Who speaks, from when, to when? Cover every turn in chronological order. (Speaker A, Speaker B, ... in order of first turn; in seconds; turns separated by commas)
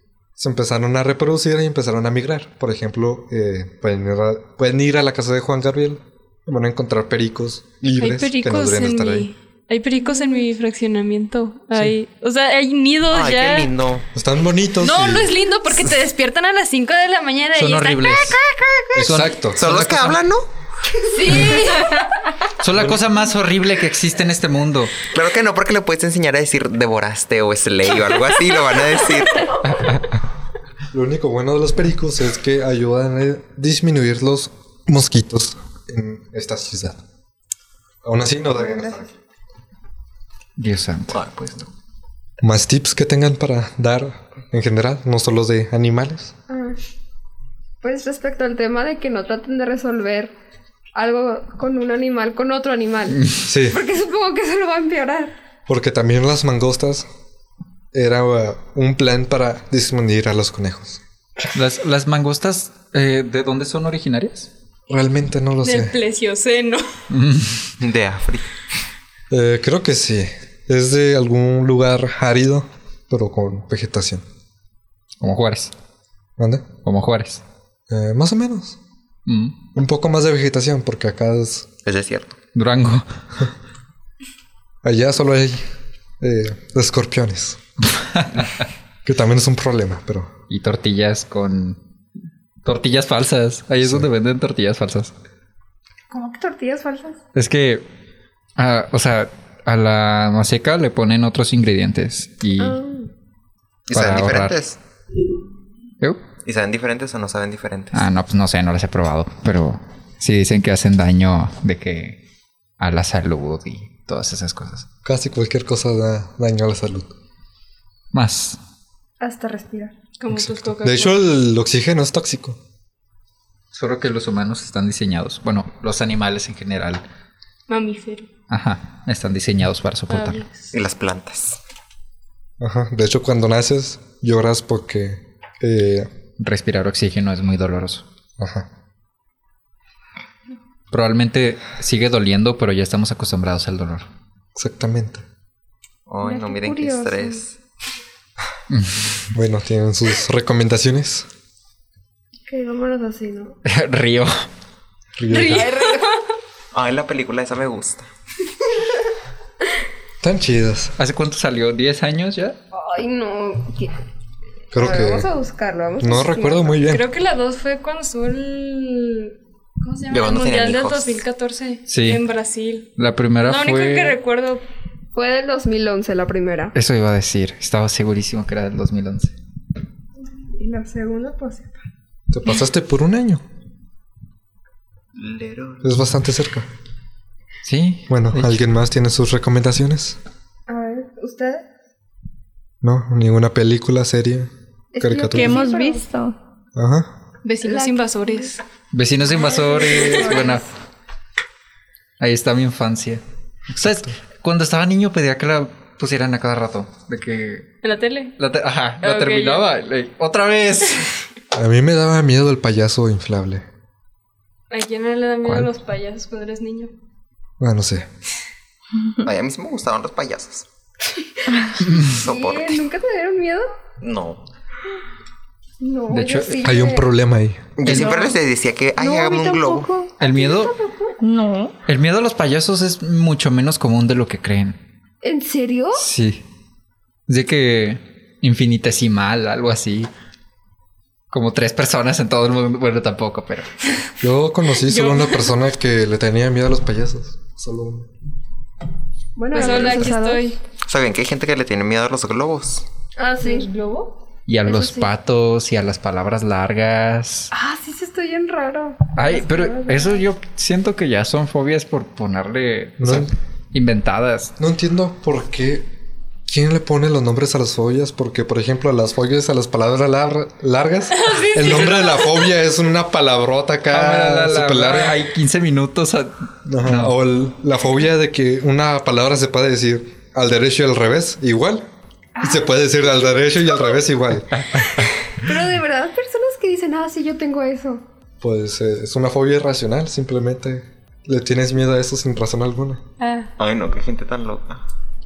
Speaker A: 0.4-9.3, Speaker B: 8.0-13.7, Speaker C: 13.1-14.1, Speaker A: 14.1-15.4, Speaker B: 14.8-18.8, Speaker D: 17.6-18.4, Speaker D: 18.9-20.2, Speaker A: 18.9-19.6, Speaker C: 19.6-20.5, Speaker B: 21.1-22.1, Speaker E: 21.2-21.9, Speaker D: 21.3-21.6, Speaker D: 22.6-25.1, Speaker A: 22.7-23.0, Speaker C: 25.1-29.5, Speaker D: 29.6-30.1, Speaker A: 30.9-37.0, Speaker A: 38.0-39.1, Speaker E: 38.6-39.0, Speaker D: 40.6-41.2, Speaker C: 41.1-41.7, Speaker A: 42.4-46.3, Speaker E: 46.5-46.8, Speaker E: 47.8-50.3, Speaker E: 51.0-55.3, Speaker A: 53.4-53.8, Speaker A: 55.7-57.1, Speaker A: 57.9-61.0, Speaker D: 61.5-64.5, Speaker A: 64.9-66.0, Speaker B: 65.6-66.9, Speaker D: 67.1-67.7, Speaker C: 67.8-68.5, Speaker A: 69.3-74.2, Speaker D: 75.2-75.7, Speaker A: 76.4-76.7, Speaker D: 76.8-77.4, Speaker A: 77.9-78.8, Speaker D: 79.3-79.6, Speaker A: 79.7-81.7, Speaker C: 81.8-82.4, Speaker D: 82.5-83.0, Speaker A: 84.8-85.6, Speaker A: 86.2-87.6, Speaker D: 88.0-88.6, Speaker A: 89.0-90.3, Speaker D: 90.5-91.8, Speaker D: 92.6-95.1, Speaker A: 93.8-94.1, Speaker E: 96.1-97.2, Speaker D: 97.3-97.8, Speaker D: 98.6-102.8, Speaker E: 102.6-103.1, Speaker C: 103.9-104.8, Speaker D: 103.9-104.6, Speaker C: 106.5-108.0, Speaker D: 107.9-112.2, Speaker D: 112.8-114.9, Speaker A: 115.0-117.1, Speaker D: 118.1-118.6, Speaker E: 119.2-120.0, Speaker B: 120.2-121.2, Speaker A: 120.3-122.6, Speaker D: 123.7-127.0, Speaker B: 127.7-128.3, Speaker D: 128.5-130.4, Speaker B: 130.1-130.7, Speaker C: 130.7-131.6, Speaker A: 132.6-136.1, Speaker D: 136.4-138.1, Speaker A: 138.4-138.7, Speaker D: 140.9-144.1, Speaker A: 144.6-145.2, Speaker C: 146.1-147.5, Speaker E: 146.2-147.4, Speaker D: 148.7-149.3, Speaker A: 149.3-151.3, Speaker E: 152.5-153.6, Speaker D: 153.6-154.4, Speaker A: 155.2-155.7, Speaker B: 155.3-156.3, Speaker E: 155.4-156.2, Speaker C: 156.7-158.1, Speaker A: 160.2-160.9, Speaker D: 161.0-162.6, Speaker E: 162.7-163.9, Speaker A: 164.7-165.3, Speaker E: 164.7-166.8, Speaker A: 166.0-167.1, Speaker B: 166.9-172.9, Speaker C: 170.1-171.2, Speaker D: 171.9-172.2, Speaker D: 173.0-174.2, Speaker B: 173.4-174.6, Speaker E: 175.1-176.7, Speaker D: 176.7-179.3, Speaker E: 180.4-181.8, Speaker A: 182.3-183.4, Speaker C: 185.1-185.9, Speaker A: 185.8-186.7, Speaker D: 187.6-188.6, Speaker A: 188.1-190.2, Speaker E: 190.7-191.7, Speaker A: 192.8-195.5, Speaker E: 194.9-196.0, Speaker F: 195.3-196.4, Speaker A: 196.7-197.2, Speaker B: 197.4-198.6, Speaker E: 197.6-198.5, Speaker D: 198.9-200.6, Speaker E: 199.3-200.7, Speaker D: 202.2-207.7, Speaker A: 203.7-204.2, Speaker B: 207.8-208.3, Speaker D: 208.4-211.2, Speaker B: 209.0-209.7, Speaker A: 211.5-213.7, Speaker B: 214.7-216.9, Speaker A: 217.6-218.1, Speaker C: 219.2-220.7, Speaker D: 221.9-222.1, Speaker C: 221.9-222.8, Speaker E: 222.1-223.7, Speaker C: 224.0-224.4, Speaker E: 225.8-227.1, Speaker D: 226.1-226.6, Speaker A: 226.6-227.7, Speaker C: 227.8-229.9, Speaker D: 227.8-228.4, Speaker F: 229.0-230.1, Speaker E: 229.5-231.2, Speaker D: 230.2-230.7, Speaker F: 231.2-231.7, Speaker D: 231.9-234.8, Speaker E: 235.2-236.0, Speaker D: 236.0-236.4, Speaker D: 237.3-240.1, Speaker D: 241.3-243.7, Speaker A: 244.2-248.1, Speaker B: 244.9-245.5, Speaker E: 249.4-250.6, Speaker B: 249.5-250.6, Speaker C: 249.6-250.1, Speaker C: 250.9-252.9, Speaker E: 253.2-253.9, Speaker B: 253.4-254.1, Speaker D: 254.5-257.5, Speaker E: 254.6-255.1, Speaker E: 257.5-260.2, Speaker D: 259.1-264.5, Speaker A: 263.0-263.3, Speaker A: 264.6-265.9, Speaker A: 266.5-275.3, Speaker B: 271.1-272.5, Speaker D: 273.9-277.2, Speaker A: 276.7-284.7, Speaker E: 282.4-283.3, Speaker D: 284.6-285.1, Speaker E: 285.4-288.0, Speaker A: 288.4-293.0, Speaker B: 293.2-293.5, Speaker C: 293.6-294.8